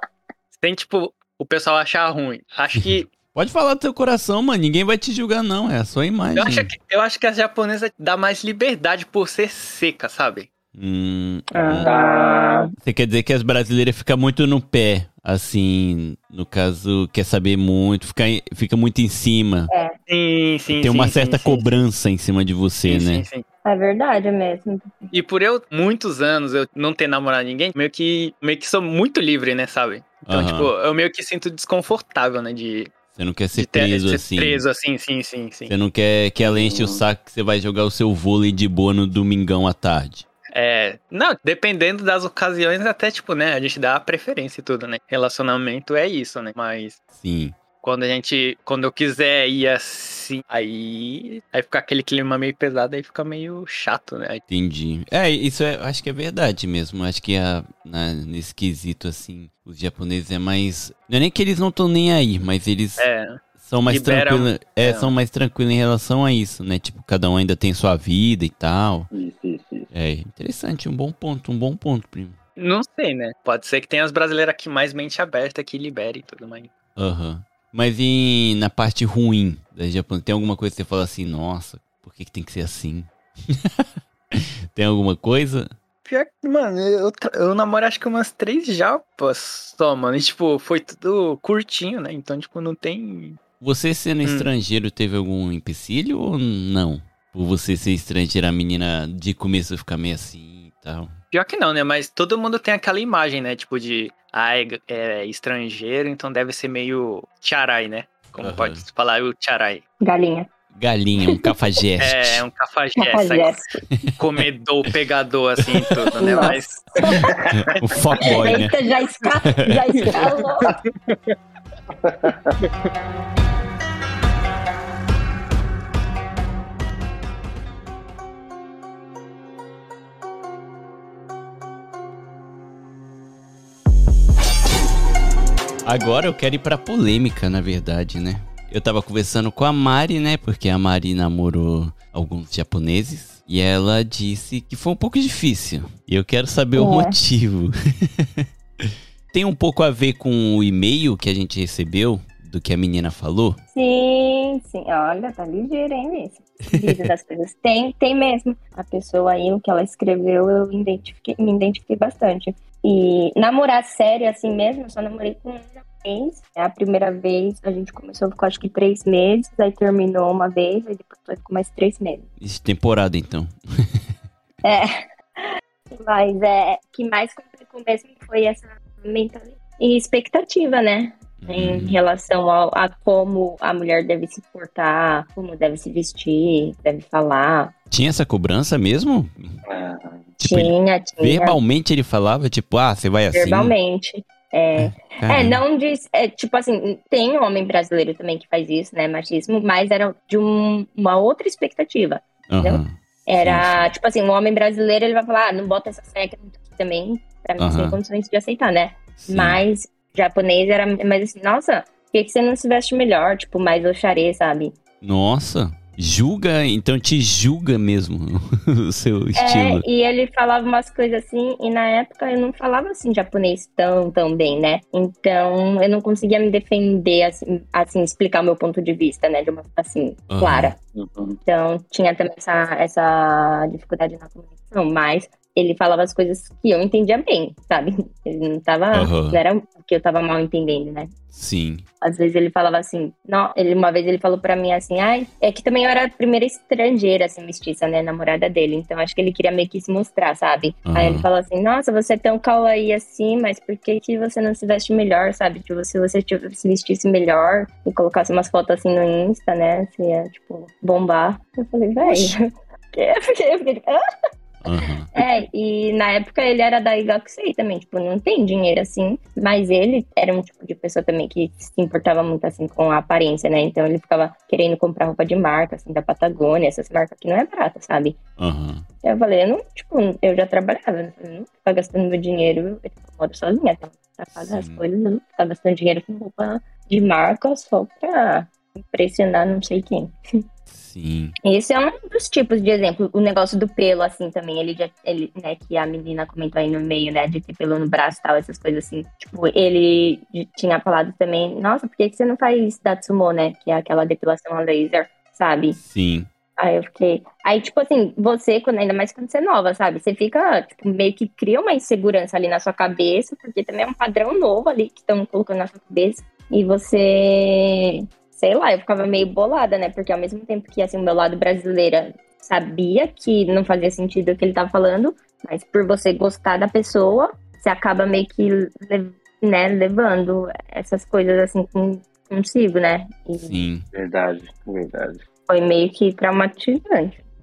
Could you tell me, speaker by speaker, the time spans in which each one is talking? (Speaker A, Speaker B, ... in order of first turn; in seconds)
Speaker A: 0.6-3.1, 6.3-10.5, 20.1-21.8, 22.8-23.4, 25.1-32.9, 33.5-35.7, 40.5-47.0, 47.8-54.4, 63.0-63.4, 63.9-65.1, 72.6-76.7, 86.0-93.4, 94.2-94.5, 101.3-109.8, 112.0-113.6, 114.2-118.3, 121.0-121.3
Speaker B: 2.8-6.7, 10.7-11.9, 12.8-19.7, 20.7-23.2, 30.3-30.7, 33.1-34.6, 35.7-40.2, 47.1-47.6, 54.5-63.0, 63.6-69.1, 69.9-72.4, 77.0-85.7, 93.6-101.1, 108.4-108.8, 110.7-112.4, 115.6-116.1, 117.6-118.8, 135.8-153.6, 156.7-157.0, 172.4-174.0, 181.4-182.0, 187.9-189.6, 190.4-193.7, 194.8-195.6, 202.5-203.9, 207.6-208.0, 209.2-209.6, 215.0-219.8, 230.3-230.7, 238.9-239.4, 241.3-241.8, 250.8-251.2, 264.6-265.1, 278.4-278.8, 284.3-284.8, 290.7-291.3, 305.8-306.3, 333.4-333.9
Speaker C: 11.5-12.7, 23.6-25.1, 110.0-110.5, 113.0-113.8, 116.2-117.3, 118.2-120.7, 146.7-147.2, 153.7-172.3, 174.6-174.9, 175.9-187.7, 190.4-191.6, 193.3-214.7, 219.4-230.7, 231.4-241.1, 242.0-262.3, 262.9-264.0, 265.1-278.1, 279.0-290.1, 291.4-305.8, 306.6-333.7, 335.5-337.2
Speaker D: 11.8-12.6, 36.5-37.0, 69.1-69.9, 122.0-122.5, 189.7-190.3, 230.9-231.4, 262.0-262.3, 333.9-335.2